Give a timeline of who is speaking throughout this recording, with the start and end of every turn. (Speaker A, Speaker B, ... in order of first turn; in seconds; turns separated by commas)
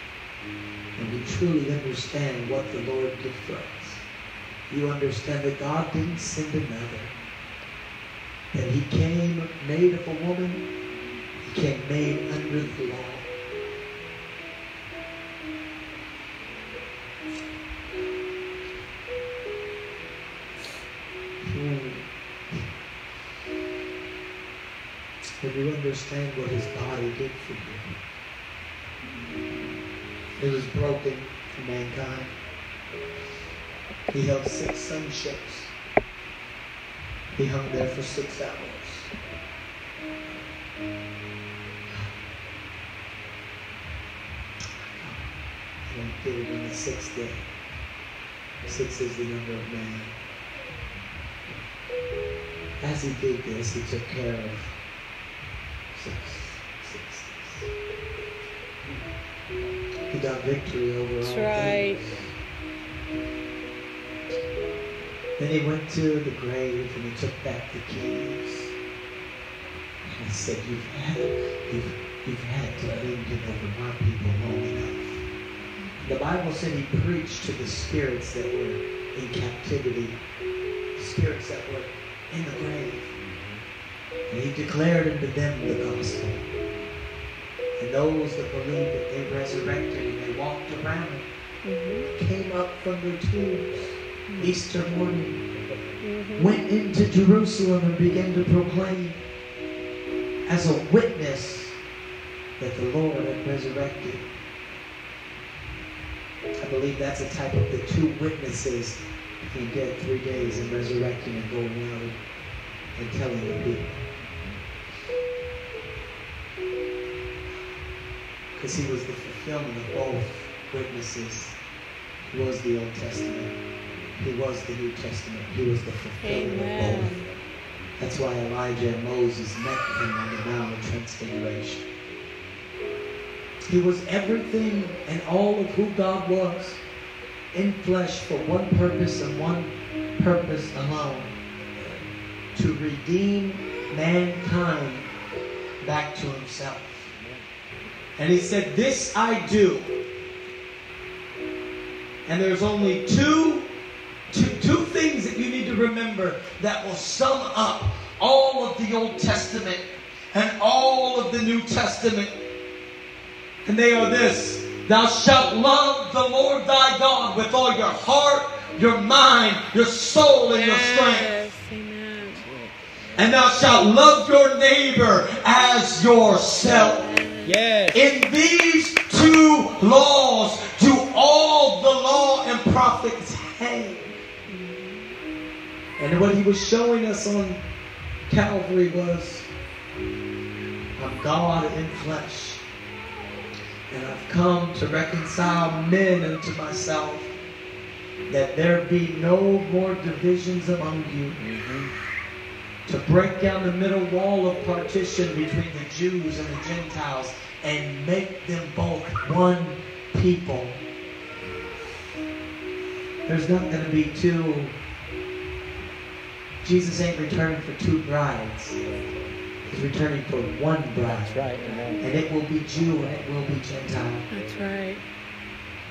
Speaker A: 0.9-4.0, Speaker A: 4.7-7.1, Speaker A: 8.5-10.6, Speaker A: 11.4-13.3, Speaker A: 21.4-22.1, Speaker A: 25.4-28.0, Speaker A: 30.4-32.3, Speaker A: 34.1-35.7, Speaker A: 37.3-39.1, Speaker A: 45.0-45.3, Speaker A: 45.9-47.5, Speaker A: 48.6-50.2, Speaker A: 52.8-54.7, Speaker A: 55.9-57.7, Speaker A: 60.1-62.3, Speaker B: 61.2-62.0, Speaker A: 65.4-68.7, Speaker A: 70.0-75.2, Speaker A: 76.0-80.2, Speaker A: 81.0-83.1, Speaker C: 83.2-83.6, Speaker A: 84.3-86.5, Speaker A: 87.8-91.2, Speaker B: 91.6-92.1, Speaker A: 92.1-95.4, Speaker B: 94.3-94.6, Speaker B: 96.0-96.6, Speaker A: 96.4-99.2, Speaker A: 100.5-101.8, Speaker A: 102.6-104.2, Speaker A: 106.6-112.2, Speaker A: 112.9-114.0, Speaker A: 118.5-121.6, Speaker A: 122.3-123.6, Speaker A: 124.2-127.2, Speaker B: 126.2-127.3, Speaker A: 128.0-131.8, Speaker A: 133.7-136.8, Speaker A: 137.5-142.0, Speaker A: 142.5-145.1, Speaker A: 145.8-147.1, Speaker C: 147.1-147.4, Speaker A: 148.2-149.9, Speaker A: 152.2-153.7, Speaker A: 154.3-162.3, Speaker A: 163.6-171.3, Speaker B: 170.5-172.4, Speaker C: 172.3-172.8, Speaker A: 173.2-177.1, Speaker B: 176.6-177.6, Speaker C: 177.4-178.1, Speaker A: 177.9-184.1, Speaker B: 184.5-185.2, Speaker A: 186.0-187.6, Speaker A: 188.3-189.5, Speaker A: 191.0-192.6, Speaker A: 193.9-197.3, Speaker A: 198.3-201.4, Speaker C: 201.3-201.9, Speaker A: 202.8-210.8, Speaker A: 213.2-214.7, Speaker A: 216.6-218.8, Speaker A: 219.7-221.4, Speaker C: 221.0-222.1, Speaker A: 222.0-224.2, Speaker B: 224.3-225.0